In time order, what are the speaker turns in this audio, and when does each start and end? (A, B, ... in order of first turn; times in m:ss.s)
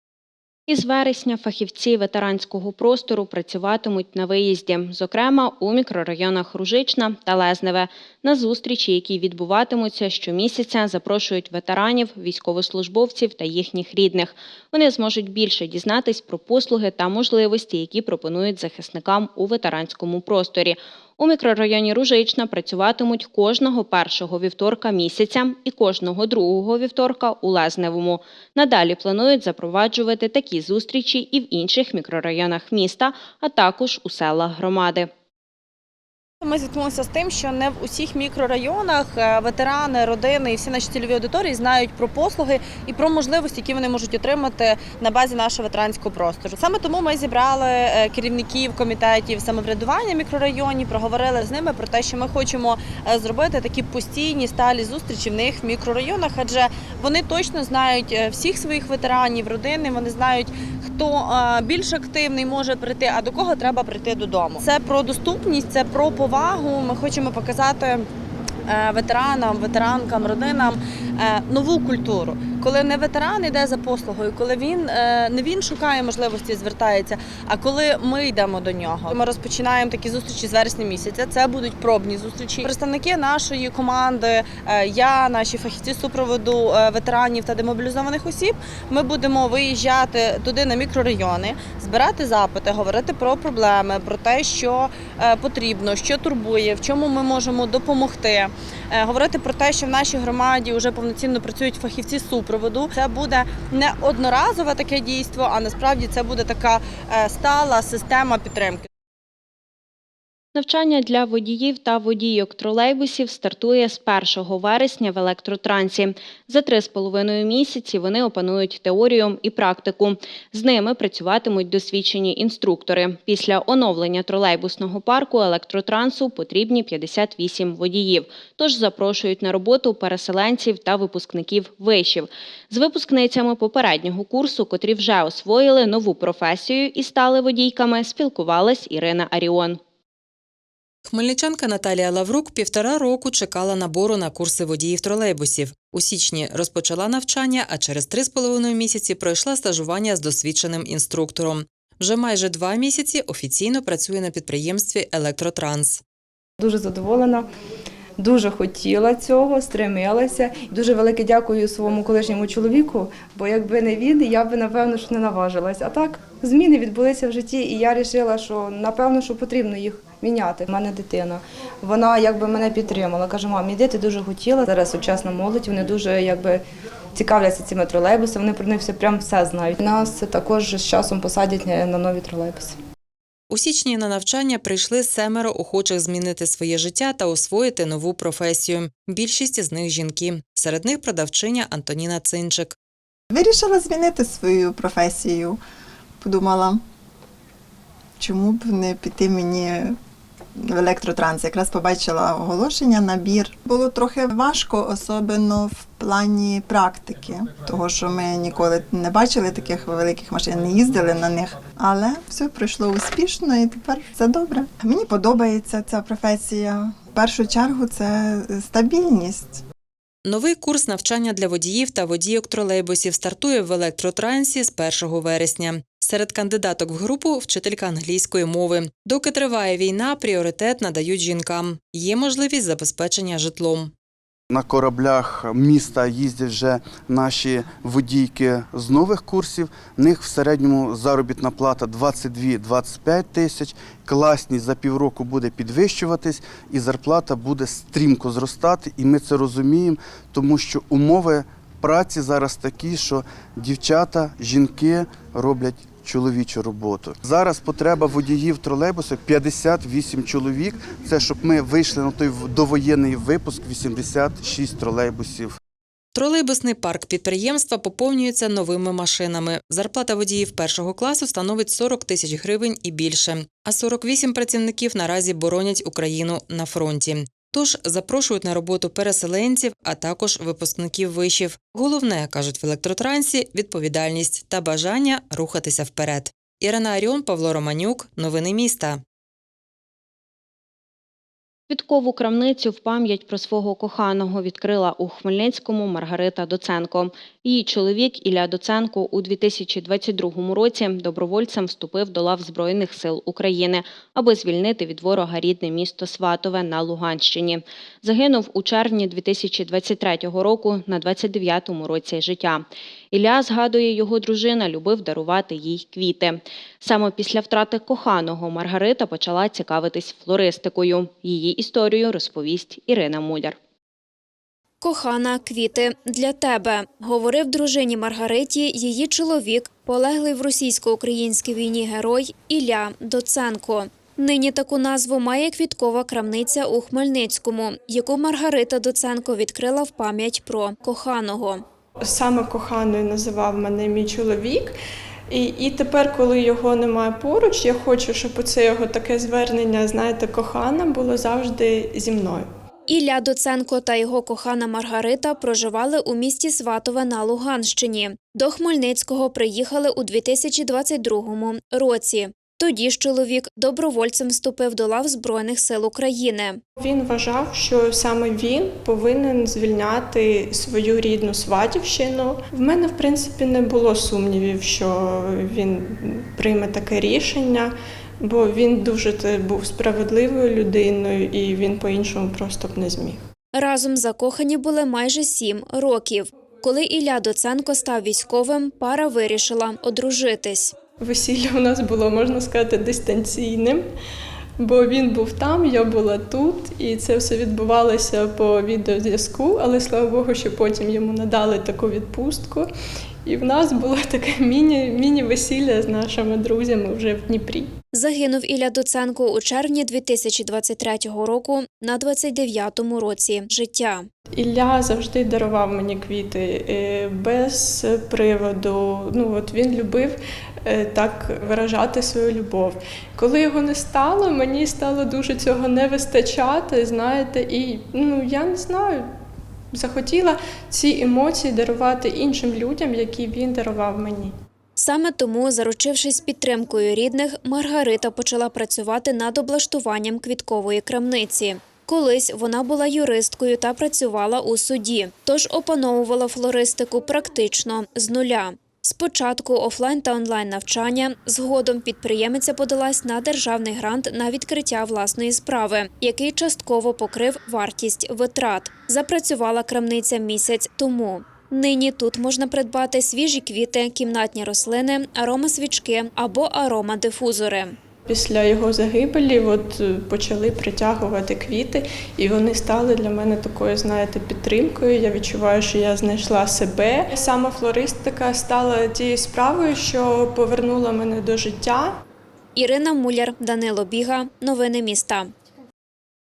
0:00.7-0:35.1 A
0:36.4-1:08.1 B
1:08.6-1:48.9 B
1:50.6-2:19.8 A
2:21.1-2:36.0 C
2:36.6-2:37.5 D
2:38.2-2:56.6 D
2:57.2-3:02.8 D
3:03.5-3:12.8 C
3:13.3-3:15.6 E
3:16.2-3:16.8 E
3:18.2-3:20.0 E
3:20.6-3:39.6 E
3:40.2-3:53.9 C
3:54.5-4:25.6 F
4:26.1-4:49.0 C
4:51.7-5:23.6 A
5:24.8-5:41.6 G
5:42.0-5:44.7 H
5:45.3-5:52.5 H
5:52.9-6:06.6 G
6:06.8-6:17.7 H
6:18.2-6:23.2 H
6:23.6-6:30.7 G
6:31.0-6:33.8 H
6:34.6-6:42.7 H
6:43.3-6:47.7 H
6:47.9-6:54.1 G
6:54.4-7:09.1 H
7:09.7-7:14.3 H
7:14.8-7:47.8 G
7:48.1-8:02.0 H
8:02.6-8:05.3 G